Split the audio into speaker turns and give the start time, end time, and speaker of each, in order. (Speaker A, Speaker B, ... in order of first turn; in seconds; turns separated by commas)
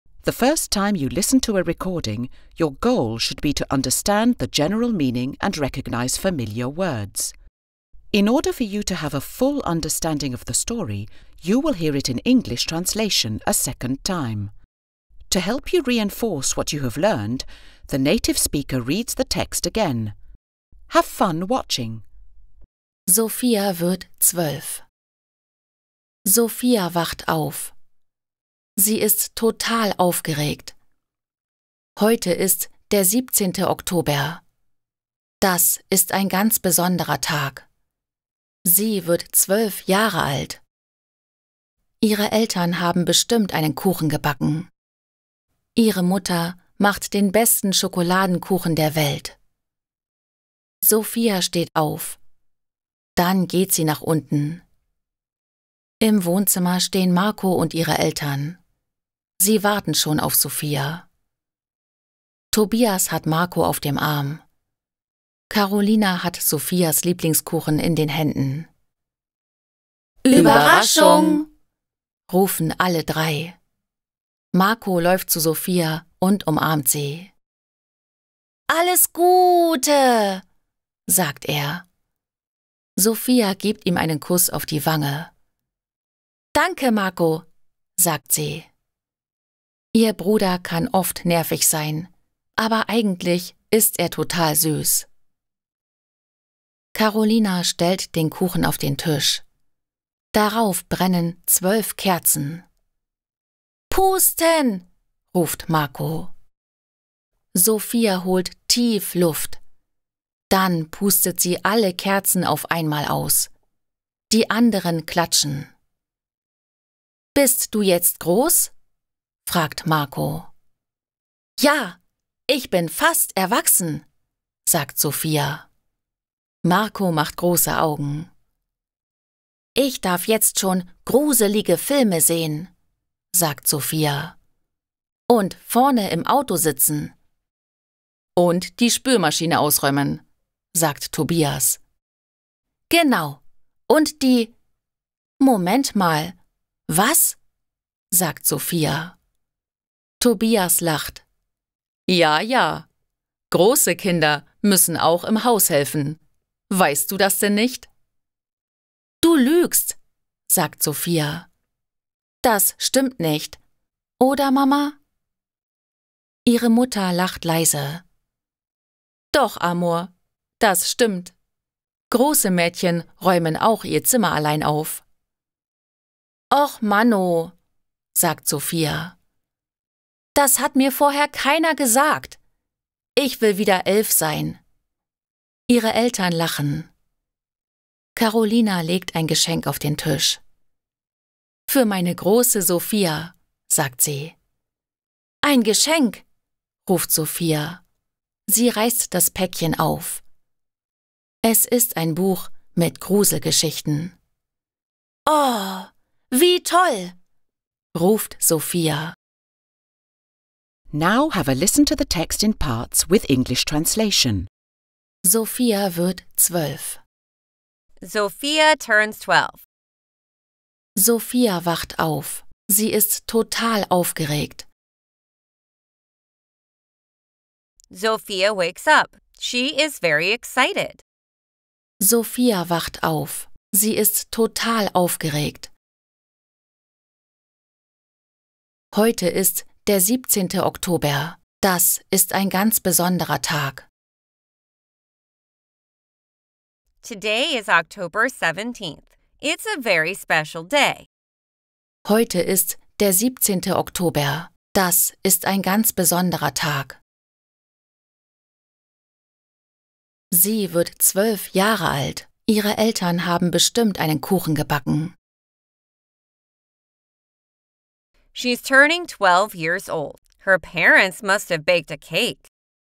Speaker A: 0.2-7.3, Speaker A: 8.1-14.5, Speaker A: 15.3-20.1, Speaker A: 20.9-22.0, Speaker B: 23.1-24.8, Speaker B: 26.2-27.7, Speaker B: 28.8-30.8, Speaker B: 32.0-34.4, Speaker B: 35.4-37.6, Speaker B: 38.6-40.6, Speaker B: 42.0-44.7, Speaker B: 45.8-49.4, Speaker B: 50.8-52.2, Speaker B: 53.1-54.6, Speaker B: 56.0-58.6, Speaker B: 59.4-61.0, Speaker B: 62.5-64.4, Speaker B: 65.5-68.7, Speaker B: 70.2-71.5, Speaker B: 72.3-73.6, Speaker B: 74.5-77.3, Speaker B: 78.7-80.4, Speaker B: 81.1-81.8, Speaker B: 83.0-85.3, Speaker B: 86.5-87.5, Speaker B: 88.0-88.7, Speaker B: 89.9-95.1, Speaker B: 96.9-99.4, Speaker B: 100.3-102.6, Speaker B: 103.9-106.3, Speaker B: 107.5-109.6, Speaker B: 110.5-113.5, Speaker B: 114.3-115.7, Speaker B: 117.3-118.7, Speaker B: 119.5-120.5, Speaker B: 121.6-124.0, Speaker B: 124.7-125.7, Speaker B: 126.6-128.3, Speaker B: 129.8-132.7, Speaker B: 133.3-134.3, Speaker B: 135.3-137.1, Speaker B: 138.3-140.2, Speaker B: 140.7-141.8, Speaker B: 142.9-144.5, Speaker B: 145.4-146.3, Speaker B: 146.9-147.4, Speaker B: 148.1-149.2, Speaker B: 150.2-151.2, Speaker B: 152.1-152.9, Speaker B: 153.5-156.2, Speaker B: 156.7-157.9, Speaker B: 159.2-160.0, Speaker B: 160.5-161.5, Speaker B: 162.4-163.6, Speaker B: 164.2-165.0, Speaker B: 166.4-168.0, Speaker B: 169.3-171.3, Speaker B: 172.1-175.0, Speaker B: 176.5-177.5, Speaker B: 178.1-179.1, Speaker B: 180.3-182.4, Speaker B: 183.2-184.6, Speaker B: 185.7-186.9, Speaker B: 188.2-190.4, Speaker B: 191.7-194.3, Speaker B: 195.4-196.2, Speaker B: 196.8-197.8, Speaker B: 198.5-200.2, Speaker B: 201.4-204.1, Speaker B: 205.3-207.1, Speaker B: 207.9-209.2, Speaker A: 210.9-214.5, Speaker B: 215.2-217.0, Speaker C: 218.0-219.6, Speaker B: 221.0-224.7, Speaker C: 227.9-231.0, Speaker B: 232.0-235.7, Speaker B: 238.9-243.9, Speaker C: 247.0-251.1, Speaker B: 252.1-257.0, Speaker B: 260.3-265.1, Speaker C: 268.3-272.4